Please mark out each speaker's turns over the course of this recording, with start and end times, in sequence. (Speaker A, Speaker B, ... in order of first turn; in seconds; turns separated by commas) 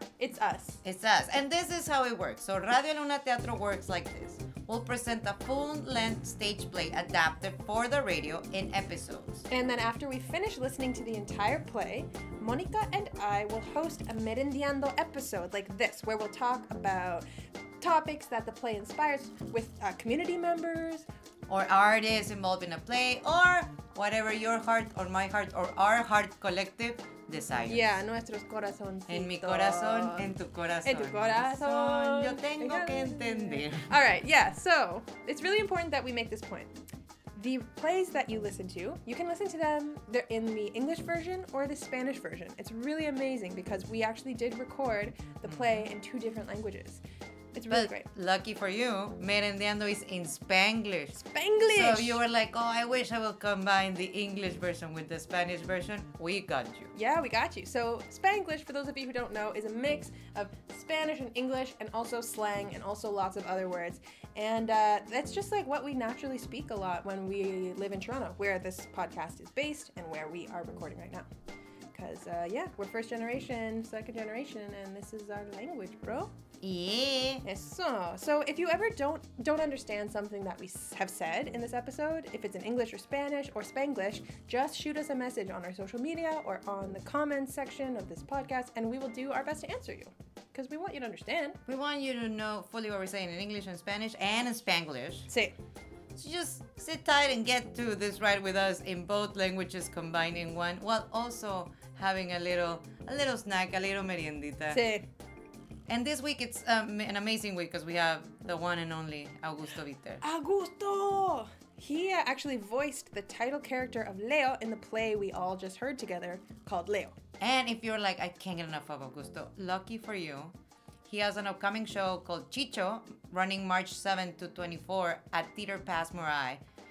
Speaker A: 0.2-0.8, Speaker B: 0.8-9.5, Speaker A: 9.5-17.2, Speaker A: 17.8-21.1, Speaker B: 21.5-28.0, Speaker A: 27.7-36.7, Speaker B: 29.1-33.9, Speaker A: 37.3-47.0, Speaker B: 45.5-45.9, Speaker A: 47.5-48.0, Speaker B: 47.7-56.9, Speaker A: 51.1-52.2, Speaker A: 56.9-71.3, Speaker A: 71.9-76.3, Speaker B: 76.6-77.4, Speaker A: 77.4-91.6, Speaker B: 91.7-95.3, Speaker A: 95.3-95.5, Speaker B: 96.1-104.8, Speaker A: 104.7-105.0, Speaker B: 105.9-110.2, Speaker A: 110.2-117.2, Speaker B: 117.4-120.5, Speaker B: 121.0-126.6